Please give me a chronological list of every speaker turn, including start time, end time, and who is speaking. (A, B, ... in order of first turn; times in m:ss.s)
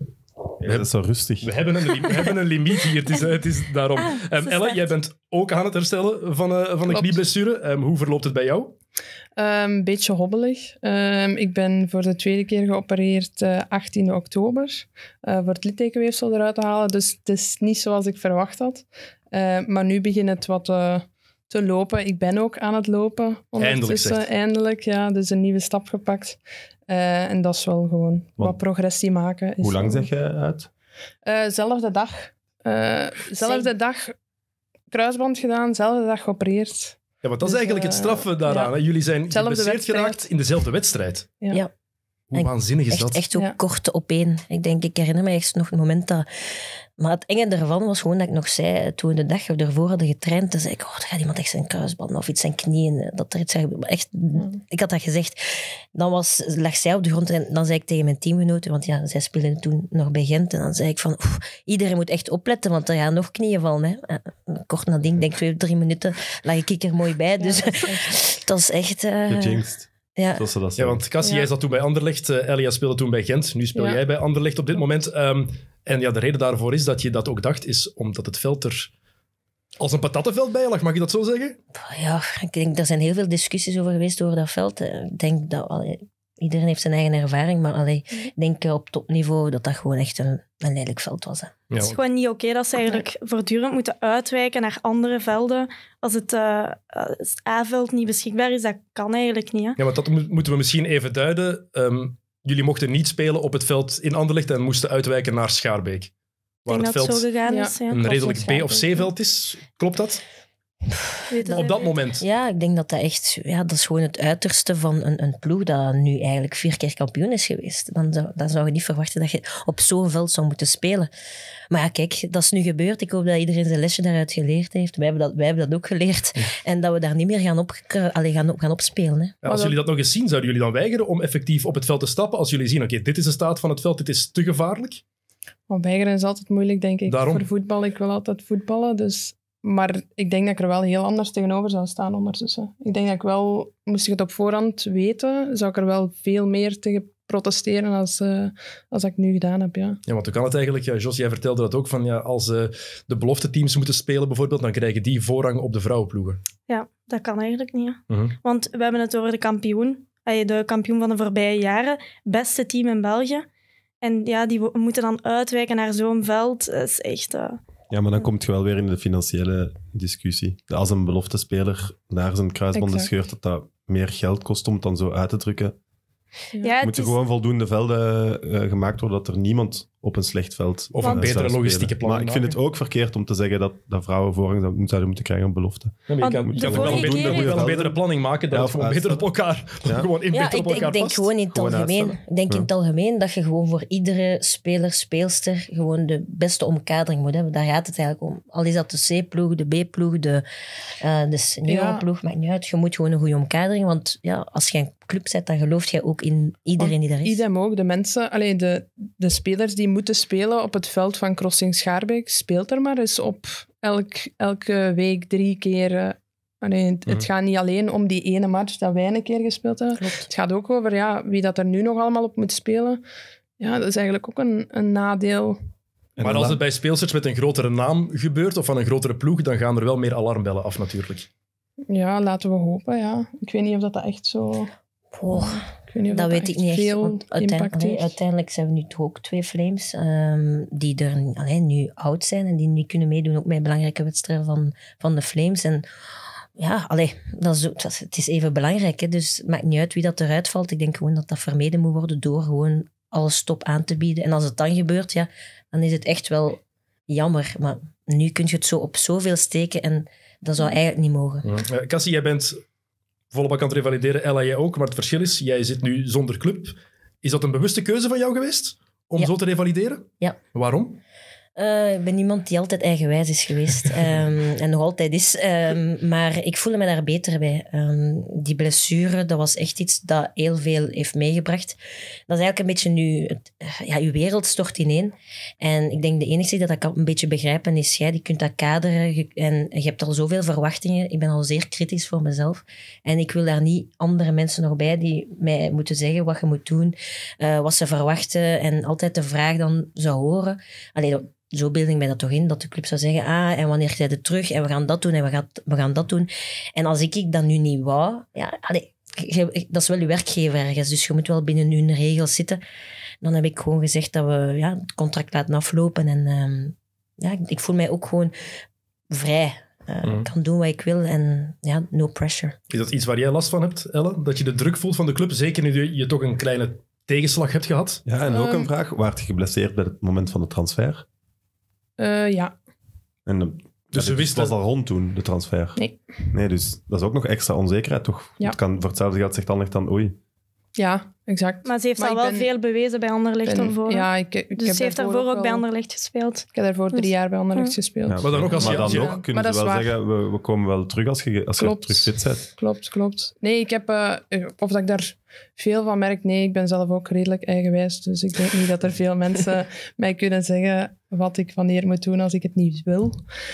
0:00.6-0:01.5 A
0:01.4-0:08.7 B
0:04.0-0:04.8 C
0:06.9-0:07.2 D
0:09.4-0:30.1 D
0:23.6-0:24.2 B
0:29.6-0:30.7 A
0:31.2-0:34.1 D
0:33.4-0:33.7 E
0:34.9-0:38.7 D
0:37.2-0:41.3 B
0:39.3-0:40.2 D
0:42.3-0:43.2 B
0:42.3-0:46.2 E
0:47.0-0:55.4 E
0:55.9-1:09.6 E
1:07.4-1:08.1 D
1:09.3-1:11.0 A
1:10.2-1:10.4 E
1:10.8-1:18.9 B
1:11.2-1:11.5 D
1:19.8-1:21.6 B
1:21.7-1:31.6 E
1:31.7-1:32.0 B
1:31.8-1:39.8 C
1:39.8-1:46.1 B
1:46.6-1:47.3 B
1:46.7-1:48.8 C
1:47.5-1:49.0 D
1:47.9-1:50.2 B
1:50.9-2:01.1 E
1:51.3-1:51.9 C
1:51.5-1:52.2 B
2:01.7-2:09.4 E
2:09.4-2:15.0 B
2:09.5-2:09.8 D
2:15.7-2:30.0 D
2:17.1-2:17.5 B
2:30.0-2:36.4 B
2:36.7-2:43.4 C
2:38.1-2:38.3 B
2:44.0-2:47.6 C
2:47.9-2:55.8 A
2:52.7-2:53.1 D
2:56.6-2:57.2 C
2:56.8-3:09.3 A
3:00.9-3:02.6 B
3:06.1-3:11.3 B
3:06.2-3:07.6 C
3:10.3-3:20.4 E
3:11.5-3:12.7 A
3:21.0-3:27.4 E
3:21.7-3:22.0 D
3:26.8-3:43.0 D
3:40.0-3:40.3 E
3:43.6-3:45.6 D
3:46.2-3:46.6 A
3:46.2-3:51.3 B
3:51.9-3:54.7 D
3:55.1-4:05.8 E
3:55.5-3:58.1 D
4:06.6-4:21.4 E
4:21.4-4:22.6 B
4:23.3-4:31.0 B
4:31.6-5:12.6 E
5:13.2-5:18.3 E
5:19.1-5:22.5 E
5:22.7-5:28.0 B
5:28.0-5:31.0 A
5:28.2-5:28.7 D
5:32.0-5:32.5 D
5:33.2-5:40.2 A
5:33.9-5:34.5 B
5:35.8-5:36.1 D
5:40.8-5:42.5 D
5:41.6-5:47.8 C
5:43.4-5:45.6 D
5:46.5-5:49.9 D
5:48.1-5:52.4 A
5:48.2-5:49.2 B
5:51.6-6:03.2 D